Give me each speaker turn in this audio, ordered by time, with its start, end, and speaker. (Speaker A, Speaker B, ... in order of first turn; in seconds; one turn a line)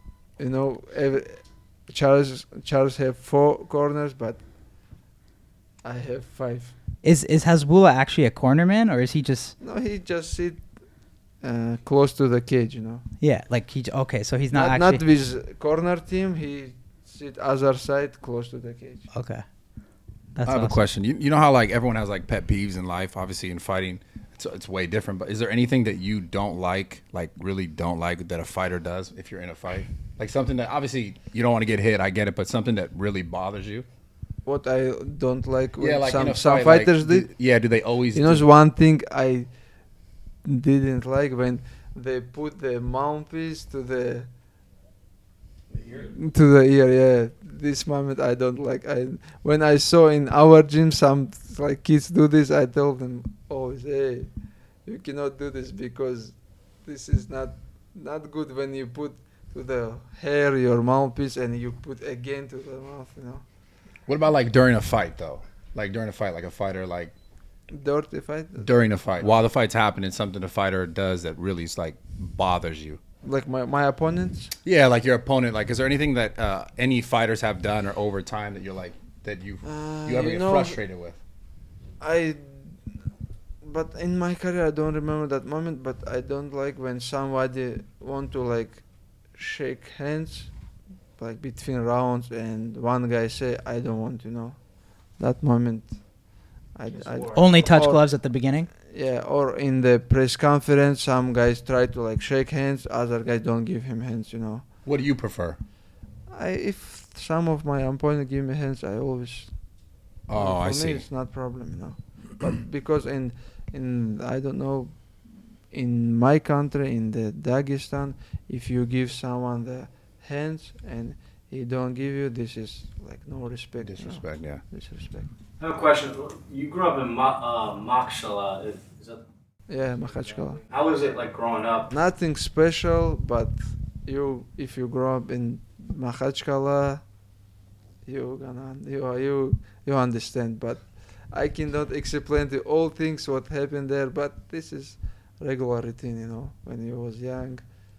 Speaker A: 0.4-4.4
Speaker A: 5.8-6.7
Speaker B: 7.0-9.6
Speaker A: 9.6-10.6
Speaker A: 11.4-13.0
Speaker B: 13.2-15.0
Speaker A: 14.5-19.0
Speaker B: 19.1-19.4
Speaker B: 20.4-20.8
Speaker C: 20.4-33.9
Speaker A: 34.5-37.3
Speaker C: 35.8-38.5
Speaker A: 38.1-39.5
Speaker A: 40.5-44.3
Speaker A: 46.0-54.3
Speaker A: 54.9-63.4
Speaker C: 64.1-67.1
Speaker A: 67.7-68.7
Speaker C: 68.6-73.0
Speaker A: 73.2-74.5
Speaker C: 74.7-81.2
Speaker A: 79.6-80.8
Speaker A: 82.0-82.8
Speaker A: 83.6-88.8
Speaker A: 89.3-90.5
Speaker A: 91.2-94.6
Speaker A: 95.2-96.0
Speaker A: 96.8-98.1
Speaker B: 97.3-98.7
Speaker A: 98.8-104.7
Speaker C: 104.9-105.6
Speaker A: 106.3-109.5
Speaker C: 110.3-111.0
Speaker A: 110.3-115.0
Speaker A: 115.7-125.3
Speaker C: 123.8-124.6
Speaker D: 125.6-129.2
Speaker A: 129.7-130.7
Speaker D: 130.7-131.9
Speaker A: 131.9-137.0
Speaker A: 138.1-147.6